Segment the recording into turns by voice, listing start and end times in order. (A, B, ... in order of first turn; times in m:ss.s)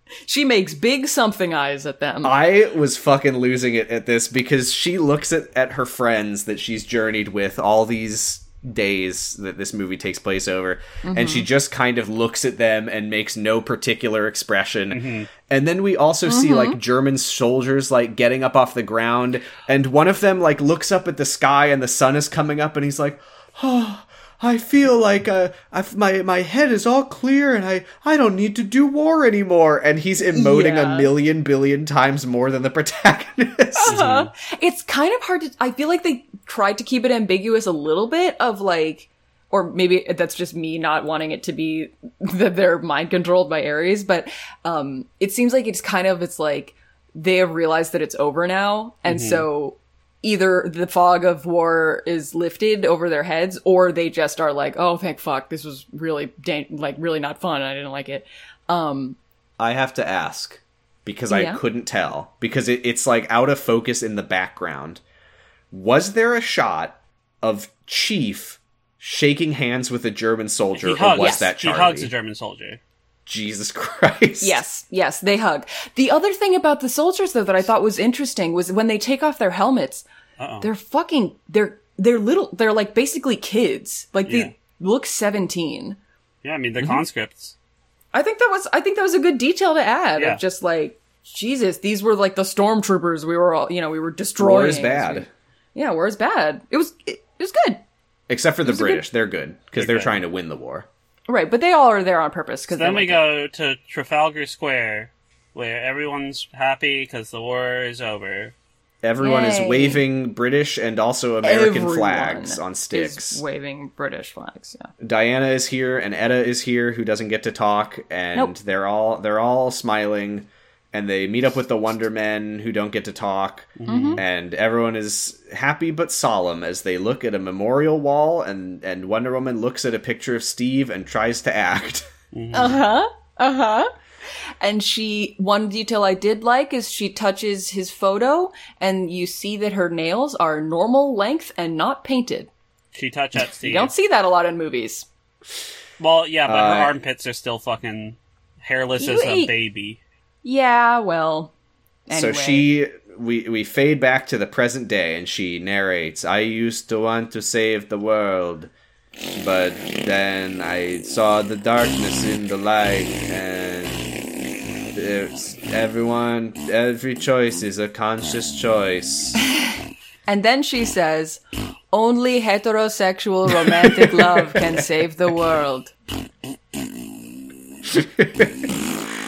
0:00.3-0:02.3 A
0:02.2-0:34.0 B
0:11.0-0:11.5 A
0:14.9-0:15.3 C
0:16.3-0:16.8 A
0:30.2-0:31.1 A
0:33.8-0:59.2 A
0:33.9-0:34.3 C
0:49.1-0:49.5 C
0:59.6-1:05.0 B
1:01.3-1:01.6 A
1:05.7-1:12.1 B
1:10.8-1:12.8 C
1:11.2-1:11.5 A
1:13.3-1:14.6 B
1:14.4-1:20.0 A
1:20.4-1:20.7 C
1:20.6-1:26.0 A
1:24.3-1:24.5 C
1:26.4-1:27.6 C
1:28.1-1:37.8 A
1:34.4-1:35.3 B
1:38.3-1:40.9 B
1:38.6-1:39.0 A
1:39.8-1:40.2 C
1:41.3-1:43.2 A
1:42.7-1:48.5 C
1:49.0-1:53.4 B
1:49.2-1:50.0 A
1:51.4-1:54.9 A
1:55.0-2:12.1 B
2:03.8-2:04.2 C
2:03.9-2:04.2 A
2:12.3-2:12.8 C
2:12.5-2:13.9 A
2:14.6-2:22.5 A
2:22.9-2:23.9 C
2:23.5-2:25.1 A
2:26.0-2:30.0 C
2:26.5-2:27.0 B
2:29.0-2:29.5 A
2:30.4-2:31.5 A
2:32.1-2:32.7 A
2:32.1-2:38.7 B
2:39.4-2:44.1 B
2:44.9-2:49.4 B
2:50.3-2:55.9 A
2:53.5-2:54.8 B
2:57.9-2:58.7 B